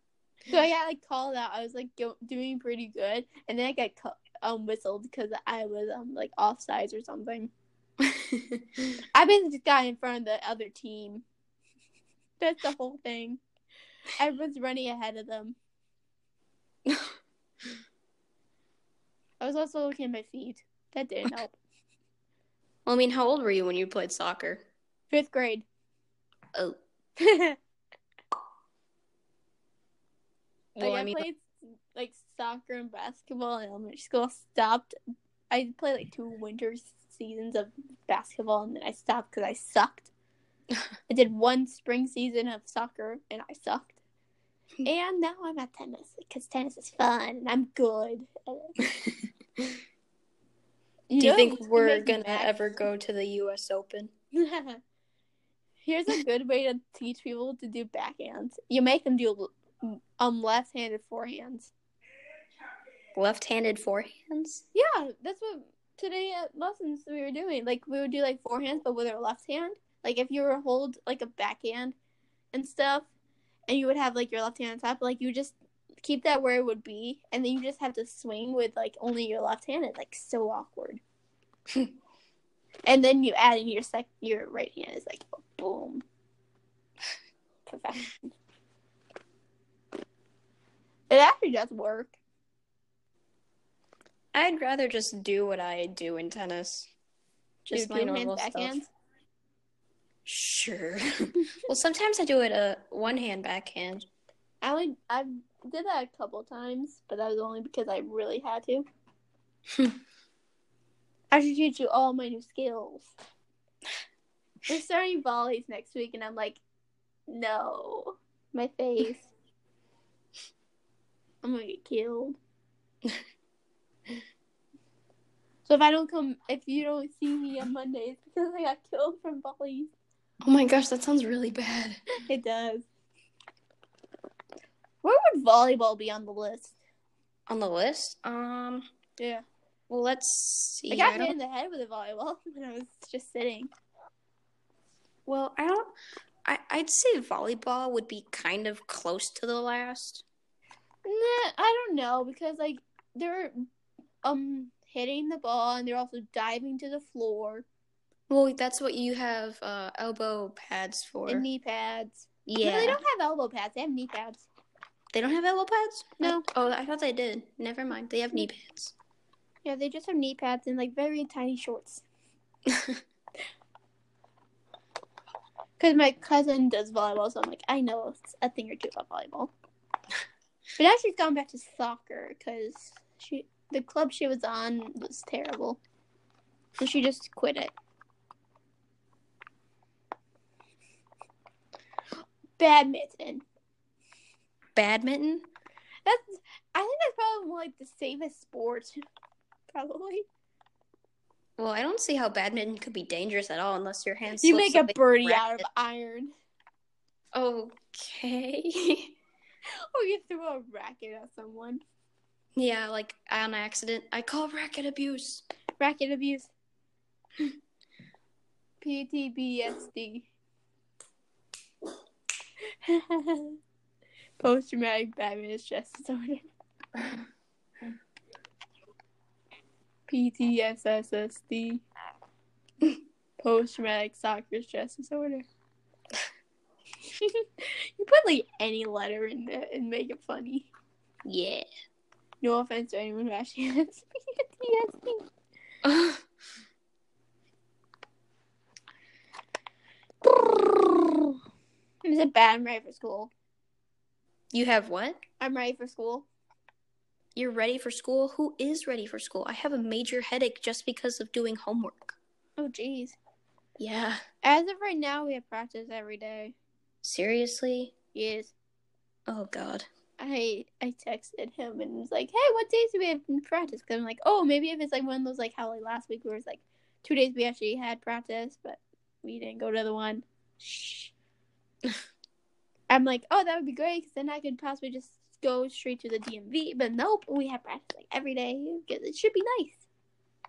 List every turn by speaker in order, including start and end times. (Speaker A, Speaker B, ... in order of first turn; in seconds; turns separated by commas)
Speaker A: 0.5-7.5, Speaker B: 8.0-8.6, Speaker A: 9.1-11.2, Speaker A: 12.4-13.4, Speaker A: 14.2-15.6, Speaker B: 16.9-17.1, Speaker A: 19.4-21.6, Speaker B: 22.9-24.6, Speaker A: 25.1-25.6, Speaker A: 27.2-27.6, Speaker B: 30.8-31.2, Speaker A: 30.8-34.9, Speaker A: 35.5-40.1, Speaker A: 41.1-43.9, Speaker A: 44.8-48.8, Speaker B: 48.8-49.7, Speaker A: 51.1-52.7, Speaker B: 51.2-54.1, Speaker A: 54.3-54.8, Speaker A: 55.8-61.7, Speaker B: 63.1-64.6, Speaker A: 64.7-72.0, Speaker A: 72.5-73.1, Speaker A: 73.7-81.0, Speaker A: 82.8-86.0, Speaker A: 87.7-88.3, Speaker A: 91.1-92.2, Speaker B: 94.3-96.9, Speaker B: 97.7-98.8, Speaker A: 97.7-98.9, Speaker B: 100.2-104.0, Speaker A: 104.6-108.9, Speaker A: 111.3-113.1, Speaker A: 114.7-116.6, Speaker A: 117.3-119.3, Speaker A: 121.4-122.4, Speaker A: 125.7-129.9, Speaker B: 130.4-132.0, Speaker A: 132.2-132.8, Speaker A: 135.0-136.7, Speaker B: 137.5-138.9, Speaker B: 139.9-141.3, Speaker A: 140.9-143.7, Speaker B: 145.2-145.9, Speaker B: 146.4-150.2, Speaker A: 151.1-153.6, Speaker A: 154.2-157.7, Speaker B: 158.3-161.4, Speaker A: 161.3-164.4, Speaker B: 162.5-163.0, Speaker B: 165.1-168.9, Speaker A: 166.2-166.4, Speaker A: 169.6-172.0, Speaker B: 172.7-173.0, Speaker A: 175.8-179.5, Speaker A: 180.8-185.8, Speaker A: 186.8-187.7, Speaker A: 192.6-193.4, Speaker B: 194.8-195.5, Speaker A: 196.1-199.0, Speaker A: 199.7-200.2, Speaker B: 201.6-205.6, Speaker A: 204.4-206.3, Speaker B: 207.3-209.2, Speaker A: 209.9-211.8, Speaker B: 212.6-215.4, Speaker A: 215.8-216.5, Speaker A: 218.8-220.3, Speaker A: 222.8-223.6, Speaker A: 224.4-226.4, Speaker A: 230.1-231.8, Speaker A: 233.4-235.4, Speaker A: 237.2-240.7, Speaker B: 241.2-241.7, Speaker A: 242.4-245.3, Speaker B: 245.8-246.2, Speaker A: 250.2-251.3, Speaker A: 252.1-253.3, Speaker B: 254.5-255.2, Speaker A: 255.4-256.3, Speaker B: 257.4-262.2, Speaker A: 262.6-263.2, Speaker B: 263.8-264.2, Speaker A: 264.4-266.6, Speaker B: 267.0-267.9, Speaker A: 268.1-268.5, Speaker B: 269.3-269.9, Speaker A: 270.2-281.1, Speaker A: 282.9-289.8